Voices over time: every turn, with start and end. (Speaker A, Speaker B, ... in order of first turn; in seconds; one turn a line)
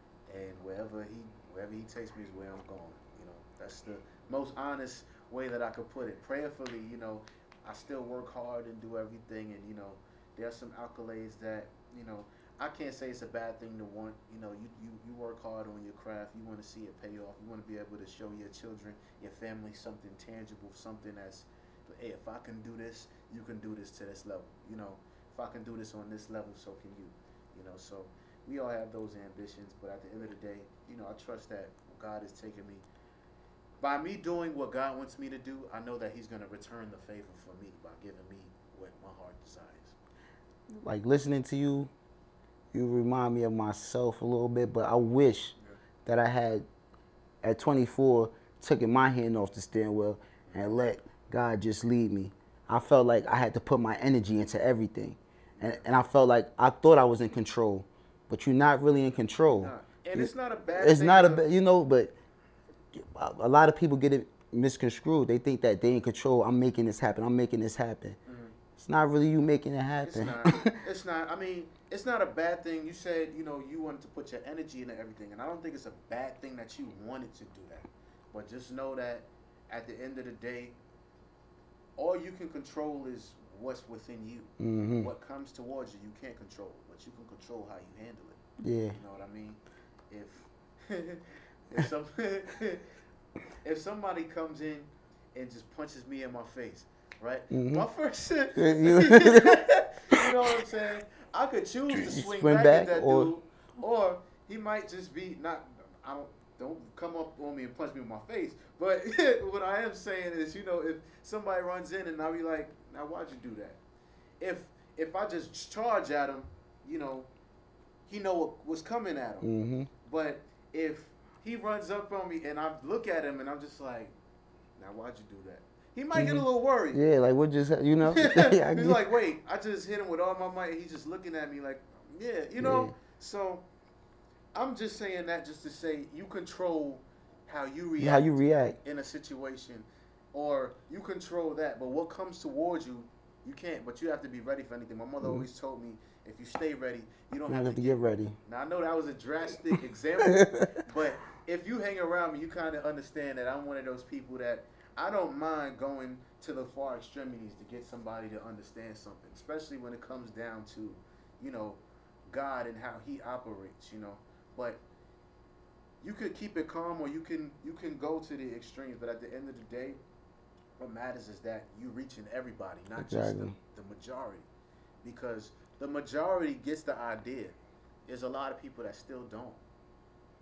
Speaker A: 0.3-32.8
Speaker A: 33.8-39.9
Speaker B: 40.8-41.9
Speaker B: 42.7-46.6
Speaker B: 47.4-62.1
Speaker A: 50.5-50.8
Speaker A: 55.6-55.9
Speaker A: 59.5-61.4
Speaker B: 62.9-68.2
Speaker A: 68.2-68.6
Speaker B: 68.8-70.8
Speaker A: 70.0-80.8
Speaker A: 82.0-88.4
Speaker B: 84.6-85.1
Speaker B: 88.6-89.0
Speaker A: 88.9-92.8
Speaker A: 93.6-113.8
Speaker B: 97.5-97.8
Speaker B: 98.5-100.2
Speaker B: 101.9-103.3
Speaker A: 114.4-117.3
Speaker A: 118.1-119.5
Speaker B: 119.4-119.9
Speaker A: 120.0-124.1
Speaker A: 124.8-127.0
Speaker B: 126.1-129.1
Speaker A: 128.0-133.7
Speaker B: 132.6-132.9
Speaker A: 134.5-164.8
Speaker B: 138.0-138.8
Speaker B: 145.2-145.5
Speaker B: 147.5-148.4
Speaker B: 150.3-150.7
Speaker A: 166.0-170.0
Speaker A: 170.8-174.5
Speaker B: 173.0-173.6
Speaker A: 175.0-179.6